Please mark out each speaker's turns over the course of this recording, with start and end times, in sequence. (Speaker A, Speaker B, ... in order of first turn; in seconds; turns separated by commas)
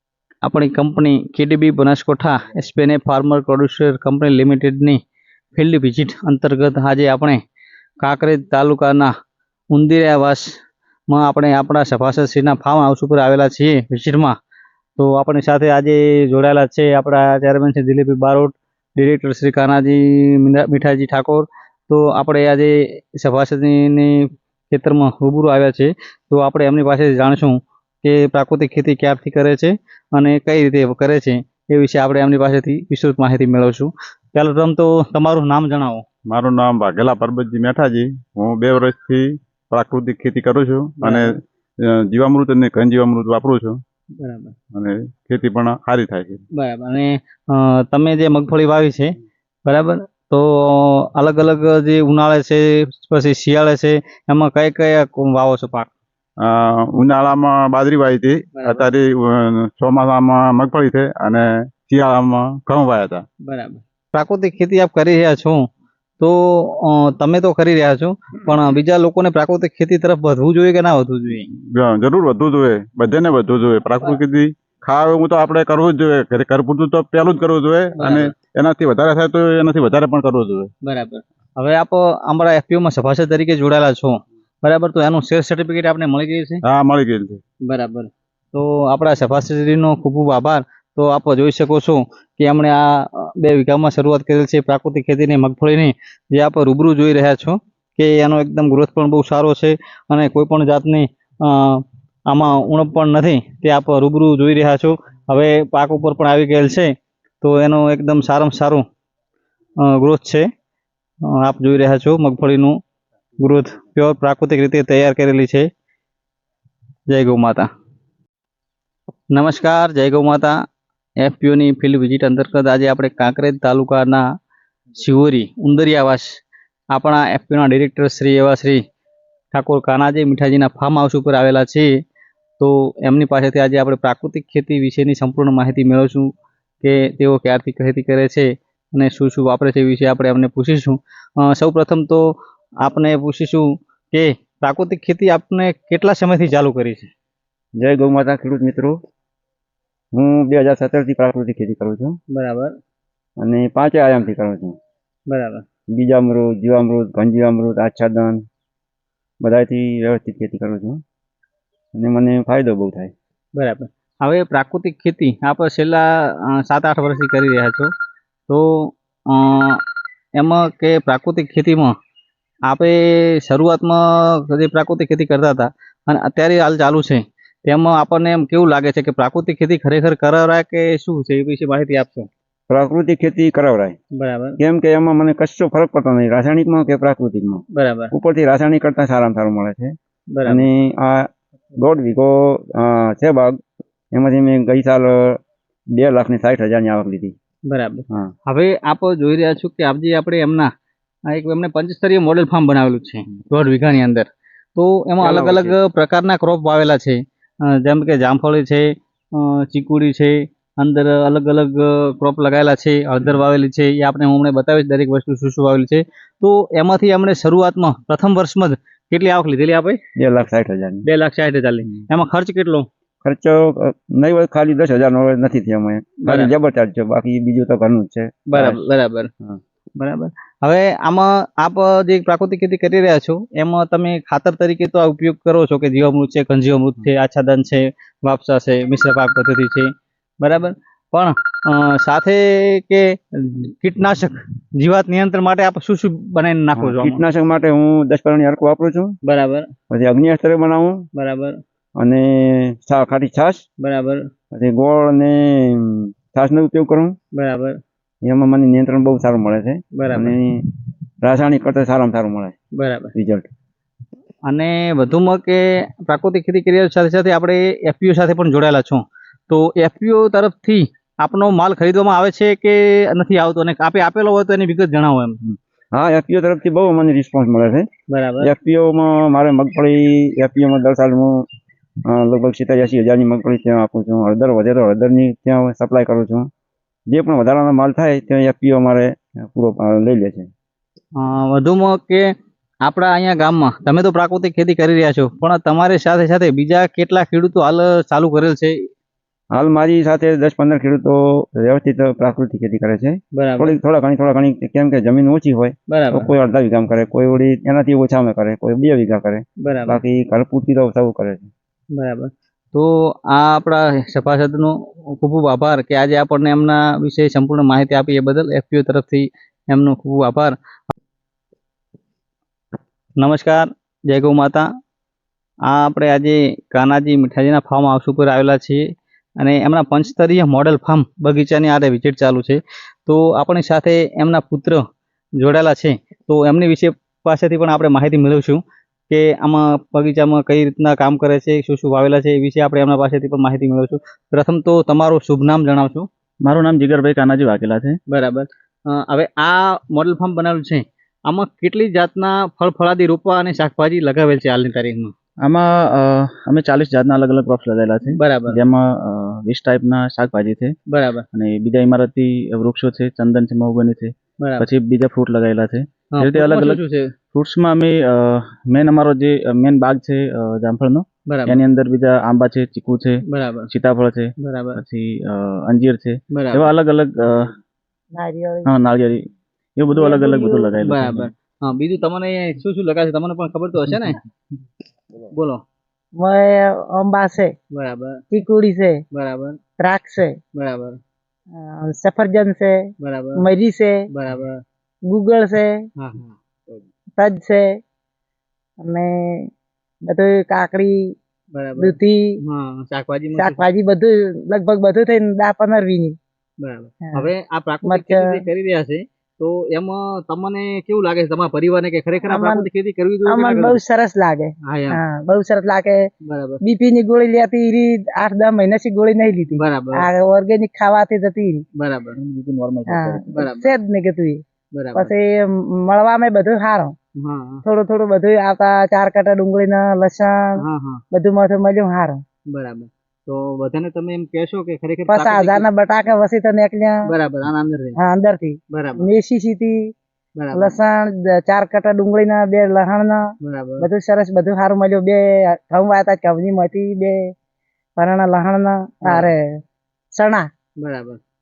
Speaker A: 0.4-5.0, Speaker A: 5.5-7.4, Speaker A: 8.0-9.1, Speaker A: 9.7-10.5, Speaker A: 11.1-14.3, Speaker A: 15.0-36.0, Speaker B: 36.3-41.3, Speaker A: 41.0-41.3, Speaker B: 41.8-43.8, Speaker A: 44.2-44.5, Speaker B: 44.7-46.4, Speaker A: 46.6-49.1, Speaker A: 49.6-55.9, Speaker B: 56.4-63.2, Speaker A: 58.5-58.8, Speaker A: 63.5-65.6, Speaker A: 66.2-71.5, Speaker B: 71.5-80.7, Speaker A: 78.0-78.3, Speaker A: 80.8-86.6, Speaker B: 86.6-87.4, Speaker A: 87.7-108.8, Speaker A: 109.8-110.5, Speaker A: 111.2-112.8, Speaker A: 113.4-115.7, Speaker A: 117.1-117.7, Speaker A: 119.3-120.5, Speaker A: 121.2-124.2, Speaker A: 125.0-126.3, Speaker A: 126.9-128.8, Speaker A: 129.5-131.9, Speaker A: 132.6-136.3, Speaker A: 136.8-142.2, Speaker A: 142.8-147.1, Speaker C: 147.8-148.9, Speaker C: 150.1-152.2, Speaker A: 152.3-152.7, Speaker C: 153.4-154.8, Speaker A: 155.3-155.6, Speaker C: 155.9-158.5, Speaker C: 159.4-161.0, Speaker C: 161.9-163.1, Speaker A: 163.6-167.9, Speaker A: 168.5-169.8, Speaker A: 170.4-171.9, Speaker A: 172.7-182.3, Speaker C: 182.7-184.0, Speaker A: 184.2-184.6, Speaker C: 184.6-189.9, Speaker A: 187.7-188.1, Speaker A: 190.3-190.7, Speaker C: 190.5-193.6, Speaker C: 194.1-195.4, Speaker C: 195.9-197.3, Speaker A: 197.7-200.7, Speaker A: 201.3-220.0, Speaker C: 205.2-205.8, Speaker C: 220.2-221.1, Speaker A: 221.1-222.9, Speaker C: 223.2-228.8, Speaker A: 226.2-226.5, Speaker A: 228.5-229.3, Speaker A: 230.0-247.2, Speaker C: 246.8-249.2, Speaker A: 249.2-249.7, Speaker C: 249.9-251.1, Speaker A: 251.2-251.6, Speaker C: 252.0-253.6, Speaker A: 253.8-254.2, Speaker C: 254.5-257.1, Speaker A: 257.4-257.8, Speaker C: 258.2-260.5, Speaker A: 259.9-260.3, Speaker C: 261.2-262.5, Speaker A: 262.8-263.1, Speaker C: 263.1-263.5, Speaker A: 264.4-275.4, Speaker C: 275.4-277.9, Speaker A: 278.1-278.5, Speaker C: 278.4-281.4, Speaker C: 282.1-286.5, Speaker C: 287.1-290.5, Speaker A: 291.2-292.2, Speaker A: 292.8-298.8, Speaker C: 299.5-311.5, Speaker A: 303.3-303.8, Speaker A: 305.9-306.3, Speaker A: 309.6-310.0, Speaker A: 311.9-320.5, Speaker A: 323.2-324.6, Speaker A: 325.7-328.8, Speaker A: 329.4-334.8, Speaker A: 335.4-346.1, Speaker D: 346.4-348.0, Speaker A: 348.1-355.1, Speaker D: 355.4-360.8, Speaker A: 358.2-358.6, Speaker A: 360.9-361.2, Speaker D: 361.3-366.8, Speaker A: 364.4-364.6, Speaker A: 366.1-367.1, Speaker D: 367.3-377.6, Speaker A: 371.3-371.6, Speaker A: 373.3-373.7, Speaker A: 374.4-374.8, Speaker A: 376.3-376.7, Speaker E: 378.2-378.6, Speaker D: 378.7-379.2, Speaker D: 379.8-381.3, Speaker E: 380.0-380.6, Speaker A: 380.8-384.2, Speaker A: 385.3-385.6, Speaker E: 386.2-387.5, Speaker A: 387.7-388.2, Speaker E: 388.3-388.9, Speaker A: 389.1-389.6, Speaker E: 389.8-390.3, Speaker A: 390.5-391.0, Speaker E: 391.6-392.8, Speaker A: 393.0-393.5, Speaker E: 393.3-393.9, Speaker A: 394.1-394.6, Speaker E: 395.1-395.8, Speaker A: 396.0-396.4, Speaker E: 397.2-397.6, Speaker E: 398.9-399.4, Speaker E: 400.1-400.9, Speaker A: 401.5-403.6, Speaker E: 401.8-402.2, Speaker E: 403.3-406.1, Speaker A: 406.6-413.8, Speaker E: 407.0-407.3, Speaker E: 407.8-408.4, Speaker E: 412.2-412.7, Speaker E: 413.2-416.0, Speaker A: 414.6-415.0, Speaker A: 416.2-416.6, Speaker E: 416.6-421.6, Speaker A: 419.6-420.1, Speaker A: 421.8-422.1, Speaker D: 422.1-423.3, Speaker E: 422.9-424.4, Speaker A: 423.3-423.8, Speaker A: 424.7-425.1, Speaker E: 424.9-426.9, Speaker A: 427.2-427.6, Speaker E: 427.6-430.4, Speaker A: 430.6-431.0, Speaker E: 431.1-432.2, Speaker A: 432.5-435.6, Speaker E: 435.1-437.0, Speaker A: 437.1-438.0, Speaker E: 438.0-439.8, Speaker A: 438.7-439.1, Speaker A: 440.4-440.8, Speaker E: 440.5-443.2, Speaker A: 443.4-443.9, Speaker E: 443.8-447.2, Speaker E: 448.0-449.4, Speaker E: 450.1-450.5, Speaker A: 450.8-451.2